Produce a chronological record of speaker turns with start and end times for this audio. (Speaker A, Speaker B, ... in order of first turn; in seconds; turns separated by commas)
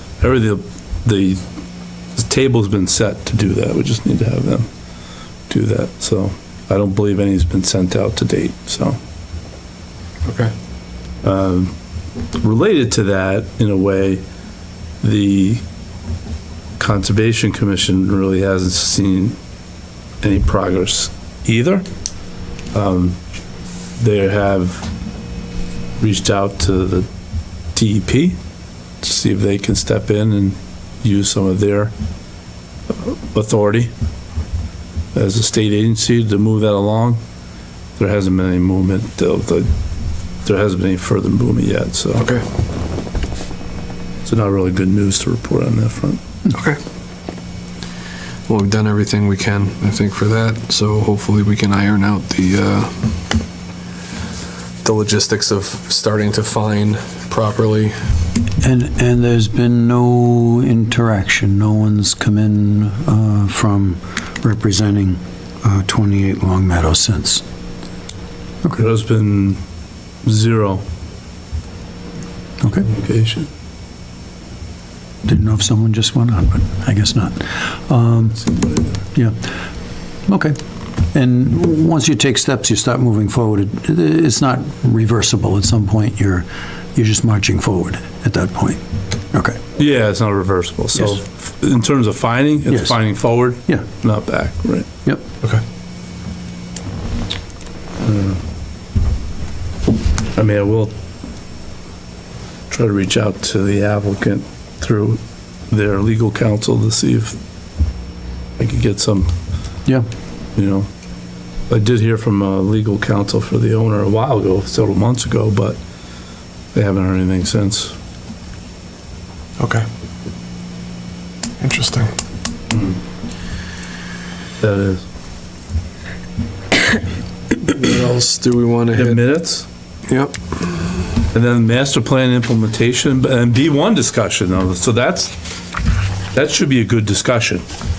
Speaker A: 0.2-1.4, Speaker A: 2.1-4.7, Speaker A: 5.5-9.0, Speaker B: 10.2-10.5, Speaker A: 11.2-11.7, Speaker A: 12.3-14.2, Speaker A: 15.0-15.6, Speaker A: 16.8-19.4, Speaker A: 20.2-21.8, Speaker A: 22.7-23.2, Speaker A: 24.0-24.9, Speaker A: 26.0-27.1, Speaker A: 27.7-28.4, Speaker A: 29.0-31.9, Speaker A: 32.9-33.9, Speaker A: 35.1-37.2, Speaker A: 38.0-39.7, Speaker A: 40.4-42.2, Speaker B: 42.2-42.4, Speaker A: 44.2-46.2, Speaker B: 46.5-46.8, Speaker B: 48.5-53.1, Speaker B: 54.8-58.0, Speaker C: 58.6-67.4, Speaker A: 68.8-69.6, Speaker A: 70.2-70.8, Speaker C: 72.6-72.9, Speaker A: 72.8-73.5, Speaker C: 75.2-79.3, Speaker A: 78.4-79.0, Speaker C: 80.3-80.6, Speaker C: 81.1-88.8, Speaker C: 89.3-89.6, Speaker A: 89.8-94.8, Speaker C: 92.7-93.8, Speaker A: 98.0-98.4, Speaker A: 100.3-100.9, Speaker A: 102.7-107.3, Speaker A: 108.6-109.3, Speaker A: 110.5-110.9, Speaker A: 111.7-115.8, Speaker A: 116.7-117.9, Speaker B: 121.6-122.1, Speaker A: 124.6-125.0, Speaker B: 127.5-129.3, Speaker A: 128.9-129.7, Speaker B: 130.1-130.8, Speaker A: 131.3-135.3, Speaker A: 136.3-137.6